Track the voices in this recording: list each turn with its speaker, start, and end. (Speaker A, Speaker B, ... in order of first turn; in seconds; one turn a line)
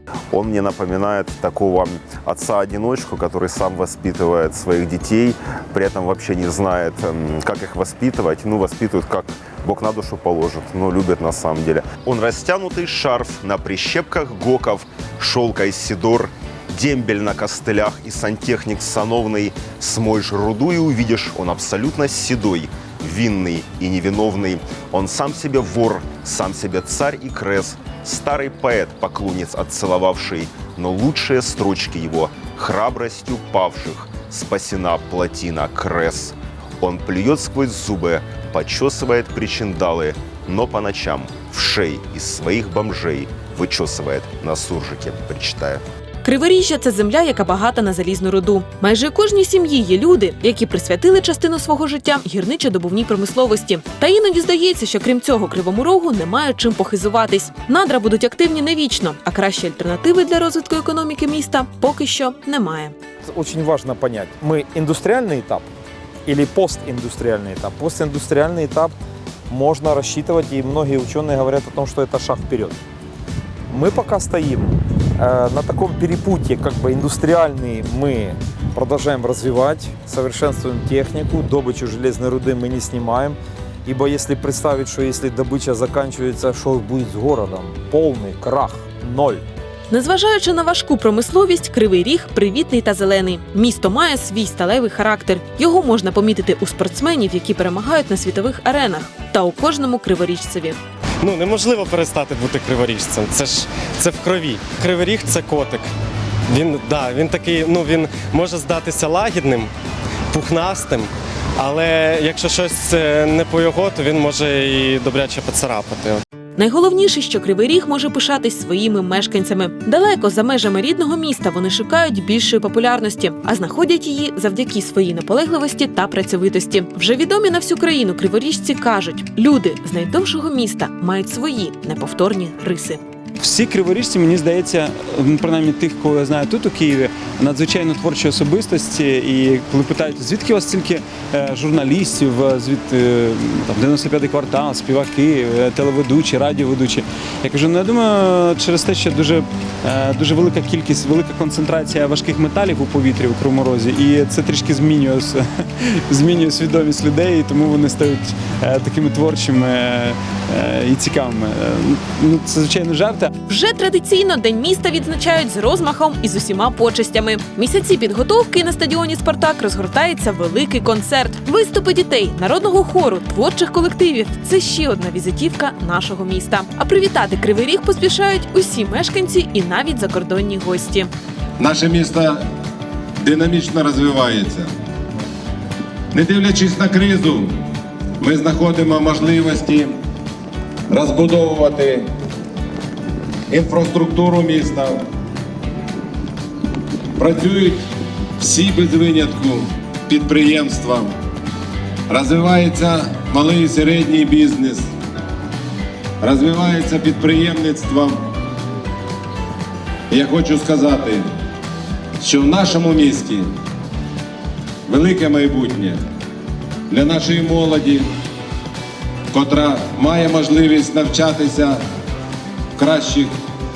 Speaker A: 0.3-45.8
Speaker B: 46.2-63.0
Speaker C: 63.3-65.7
Speaker C: 66.3-68.9
Speaker C: 69.5-72.8
Speaker C: 73.7-89.4
Speaker B: 89.9-100.8
Speaker D: 101.2-105.9
Speaker D: 106.5-109.7
Speaker D: 110.3-116.2
Speaker B: 116.6-133.0
Speaker E: 133.4-163.3
Speaker B: 163.5-181.1
Speaker F: 181.6-182.4
Speaker F: 183.2-184.7
Speaker F: 186.1-187.5
Speaker F: 188.2-189.9
Speaker F: 190.9-192.1
Speaker F: 193.5-195.0
Speaker F: 197.2-197.9
Speaker F: 198.4-201.1
Speaker F: 202.1-204.9
Speaker F: 206.2-208.2
Speaker F: 210.1-211.2
Speaker F: 212.2-213.5
Speaker F: 214.9-216.0
Speaker F: 216.9-218.1
Speaker F: 219.3-221.8
Speaker F: 222.8-223.3